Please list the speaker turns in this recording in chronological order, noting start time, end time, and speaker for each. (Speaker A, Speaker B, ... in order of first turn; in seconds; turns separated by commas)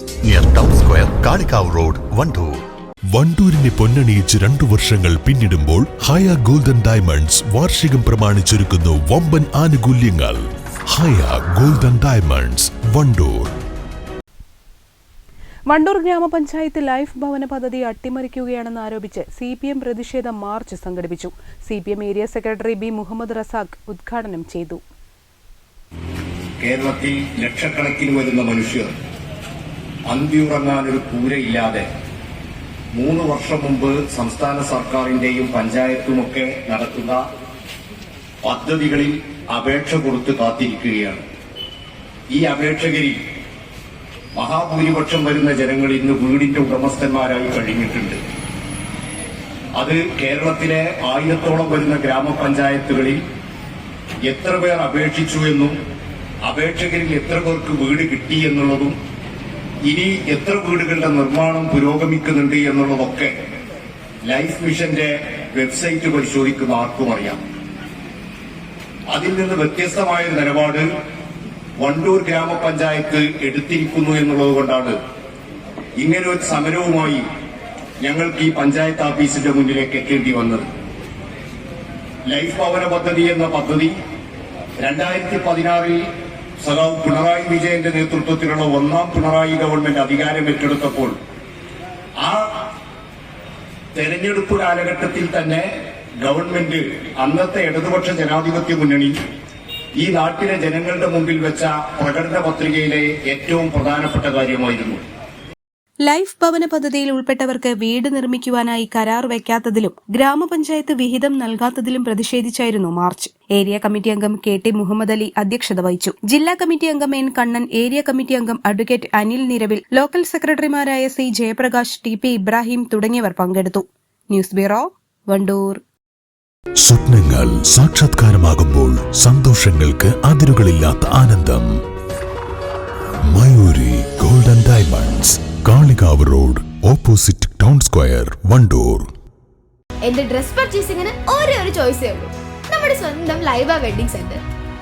Speaker A: 0.2-2.6, Speaker B: 3.1-13.5, Speaker C: 15.7-24.8, Speaker D: 26.6-28.9, Speaker D: 30.1-31.9, Speaker D: 32.9-37.2, Speaker D: 38.4-41.2, Speaker D: 42.3-43.2, Speaker D: 44.4-48.2, Speaker D: 49.8-53.2, Speaker D: 54.3-55.8, Speaker D: 56.5-59.0, Speaker D: 59.9-63.3, Speaker D: 64.2-67.4, Speaker D: 69.1-70.9, Speaker D: 71.8-75.0, Speaker D: 76.0-77.2, Speaker D: 78.0-80.7, Speaker D: 82.3-83.9, Speaker D: 84.8-86.0, Speaker D: 86.6-91.1, Speaker D: 94.0-95.7, Speaker D: 96.2-99.2, Speaker D: 100.0-105.0, Speaker C: 106.0-125.8, Speaker B: 126.8-131.7, Speaker B: 133.3-139.1, Speaker E: 140.0-144.4